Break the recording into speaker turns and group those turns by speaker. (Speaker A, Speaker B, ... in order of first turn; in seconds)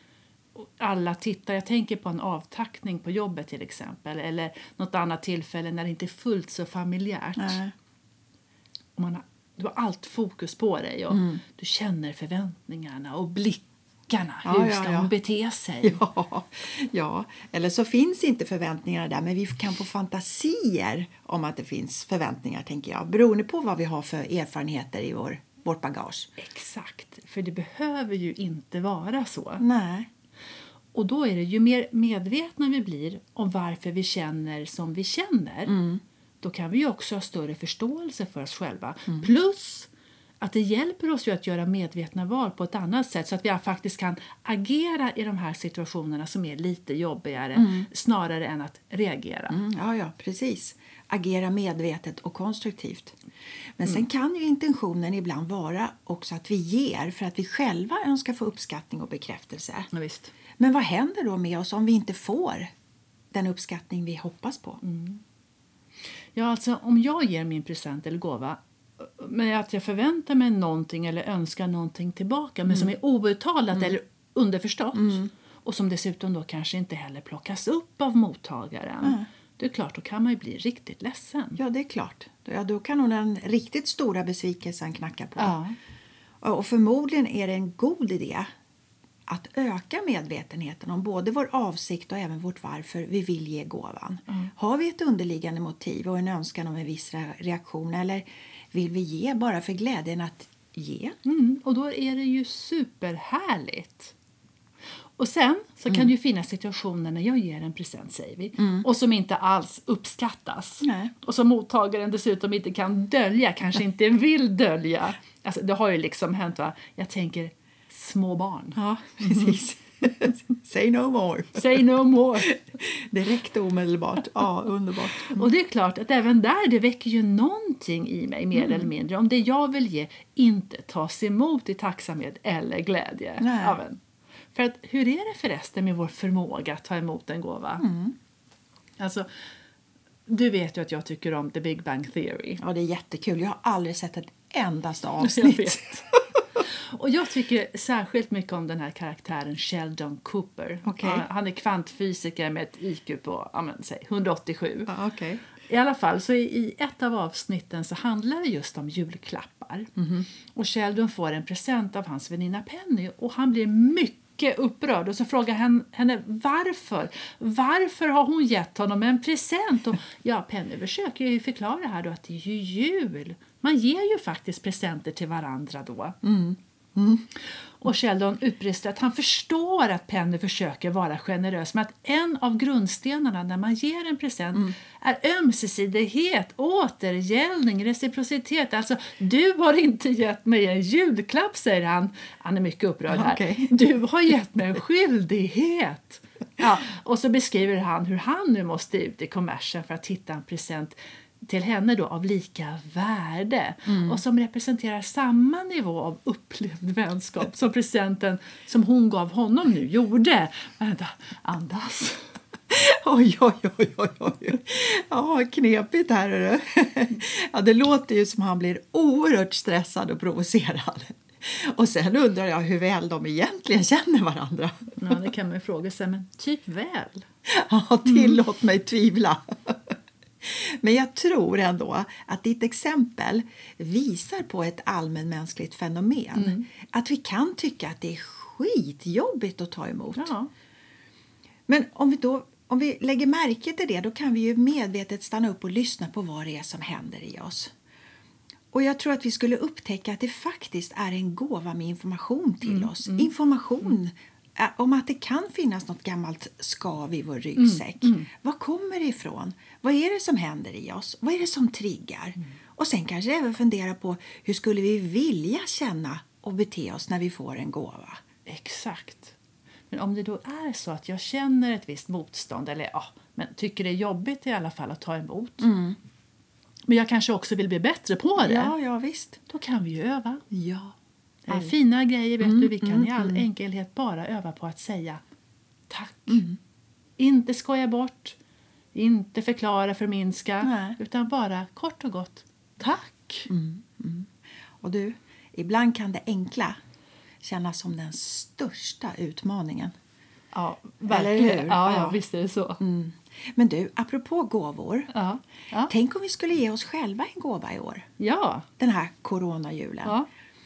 Speaker A: 0.5-7.6, 8.9-16.0, 26.4-29.6, 30.9-35.8, 36.4-39.9, 40.4-49.6, 59.9-60.3, 64.8-65.2, 66.3-81.6, 85.4-85.7, 101.2-104.1, 105.2-119.6, 121.5-122.5, 125.2-134.0, 134.5-137.8, 139.0-139.3, 140.3-142.6, 145.2-146.1, 146.6-154.9, 155.7-159.9, 160.5-176.2, 177.8-212.3, 225.0-227.2, 228.1-228.3, 236.3-236.7, 240.2-240.5, 252.6-253.3, 257.6-258.3, 268.4-269.4, 269.9-275.6, 276.9-278.7, 279.5-280.4, 281.5-285.2, 285.9-286.4, 287.2-288.4, 288.9-293.5, 300.5-302.8, 305.1-305.9, 308.2-308.7
Speaker B: 7.4-7.7, 11.1-11.4, 14.4-15.1, 15.8-26.3, 29.6-30.1, 35.7-36.0, 47.5-47.9, 49.5-53.1, 53.8-59.9, 60.6-62.7, 63.3-64.8, 75.0-75.3, 81.6-85.6, 86.4-88.5, 89.3-101.2, 108.6-108.9, 110.8-111.1, 118.8-125.5, 128.5-128.9, 133.4-133.8, 137.8-138.1, 142.6-146.2, 150.8-151.3, 154.9-155.4, 160.0-160.3, 176.2-177.3, 193.1-193.7, 203.9-204.2, 212.7-225.1, 227.5-240.3, 241.7-247.7, 248.7-268.2, 275.6-276.0, 278.4-279.4, 280.5-280.9, 281.5-281.7, 282.4-283.4, 286.3-286.6, 290.6-291.0, 293.5-294.3, 294.8-296.8, 297.4-299.9, 301.1-302.2, 302.8-305.1, 305.9-308.1, 308.8-310.2